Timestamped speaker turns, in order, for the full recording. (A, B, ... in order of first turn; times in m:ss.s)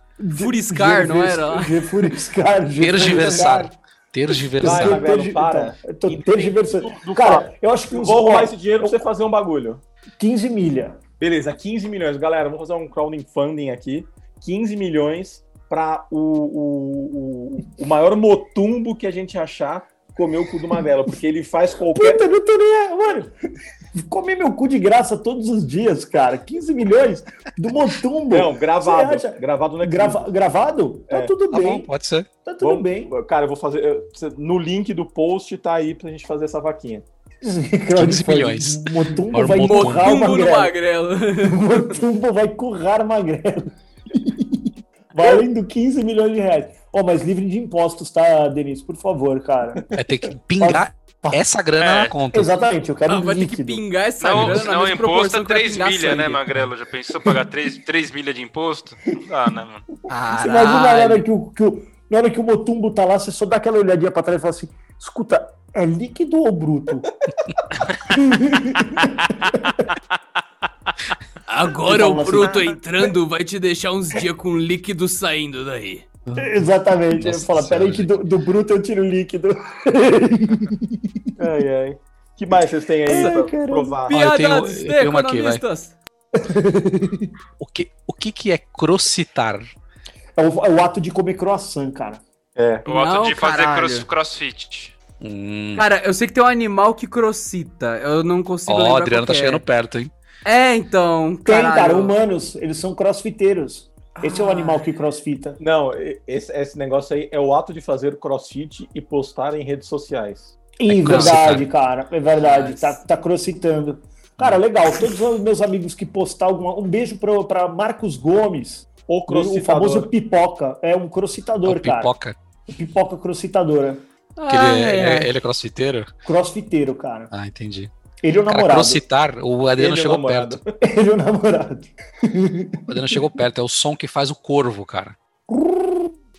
0:00.2-0:03.7 A
0:00.3-0:01.9 B
0:02.8-0:05.0 C
0:04.6-0:09.0 A
0:04.6-0:09.8 D
0:10.2-0:11.0 A
0:11.2-0:22.2 D
0:22.0-0:23.3 A
0:23.9-0:31.9 A
0:28.3-0:30.3 D
0:31.1-0:31.4 D
0:31.5-0:32.3 C
0:32.4-0:33.1 A
0:32.6-0:37.0 D
0:37.4-0:40.7 A
0:38.0-0:40.2 C
0:39.6-0:41.9 B
0:41.4-0:50.0 A
0:50.0-0:52.5 C
0:50.6-0:51.4 A
0:51.8-0:52.1 E
0:52.3-0:53.8 A
0:53.1-0:56.4 B
0:54.2-0:59.8 E
0:54.4-0:54.6 C
1:00.1-1:01.2 B
1:00.3-1:07.1 A
1:08.1-1:09.8 A
1:11.5-1:16.1 B
1:11.8-1:12.8 A
1:16.3-1:16.6 C
1:16.4-1:21.3 A
1:17.2-1:18.1 C
1:21.4-1:24.2 D
1:23.1-1:24.0 A
1:23.1-1:23.4 B
1:24.1-1:25.9 B
1:24.1-1:25.6 C
1:26.3-1:27.3 A
1:27.6-1:29.7 C
1:30.4-1:32.2 A
1:32.6-1:32.9 D
1:32.9-1:35.0 E
1:32.9-1:34.1 B
1:35.2-1:35.9 C
1:35.8-1:39.6 B
1:38.7-1:40.1 C
1:40.4-1:42.2 B
1:41.5-1:45.6 A
1:44.2-1:44.8 B
1:45.6-1:50.6 D
1:50.8-2:02.1 A
1:50.9-1:51.7 C
1:51.1-1:51.4 B
1:52.4-1:53.0 B
1:59.1-2:00.1 D
2:01.6-2:02.4 C
2:02.7-2:04.0 A
2:04.4-2:05.3 B
2:04.5-2:06.1 C
2:06.2-2:07.3 A
2:07.3-2:07.9 C
2:08.2-2:09.0 A
2:08.5-2:10.6 C
2:09.8-2:10.8 D
2:10.8-2:13.4 A
2:12.9-2:15.2 C
2:15.5-2:16.1 A